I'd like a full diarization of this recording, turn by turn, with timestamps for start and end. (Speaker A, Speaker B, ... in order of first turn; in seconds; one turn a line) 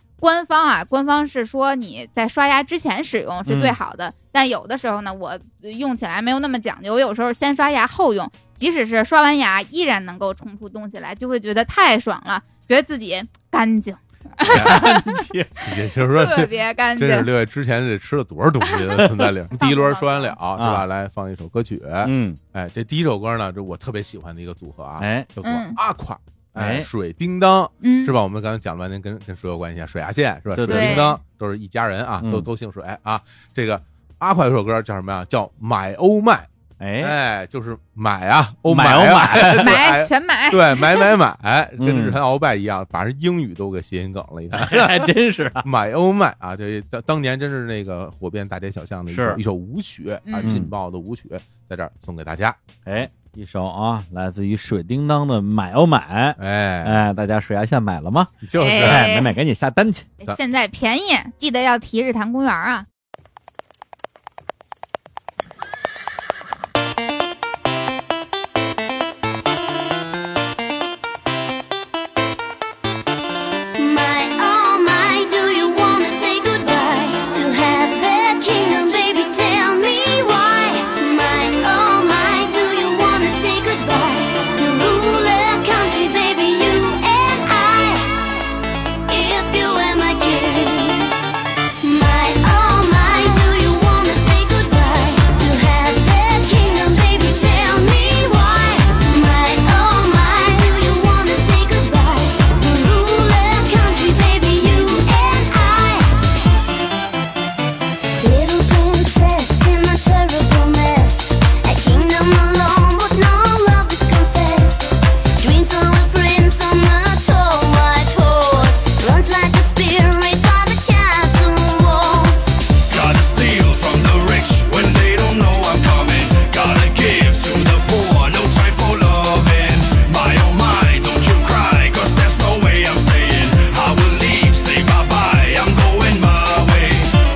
Speaker A: 0.2-15.1
Speaker B: 3.5-3.8
Speaker C: 14.5-14.9
Speaker B: 14.5-15.7
Speaker C: 15.6-36.5
Speaker A: 16.1-17.3
Speaker A: 19.5-20.4
Speaker B: 20.6-20.9
Speaker B: 22.0-22.4
Speaker B: 25.0-25.3
Speaker A: 25.4-25.8
Speaker B: 26.6-26.9
Speaker A: 27.8-28.1
Speaker B: 30.5-31.1
Speaker A: 30.7-31.2
Speaker B: 32.2-32.5
Speaker B: 36.8-37.2
Speaker C: 37.0-52.6
Speaker B: 38.7-39.8
Speaker A: 39.6-41.1
Speaker B: 41.8-42.2
Speaker B: 44.5-45.7
Speaker B: 49.1-49.4
Speaker A: 50.3-50.6
Speaker B: 50.4-50.7
Speaker B: 52.9-60.1
Speaker C: 56.4-57.0
Speaker C: 58.4-59.1
Speaker A: 58.6-59.3
Speaker A: 60.2-62.9
Speaker D: 73.8-88.4
Speaker D: 89.1-91.2
Speaker D: 91.8-106.2
Speaker D: 108.2-122.6
Speaker E: 122.9-137.1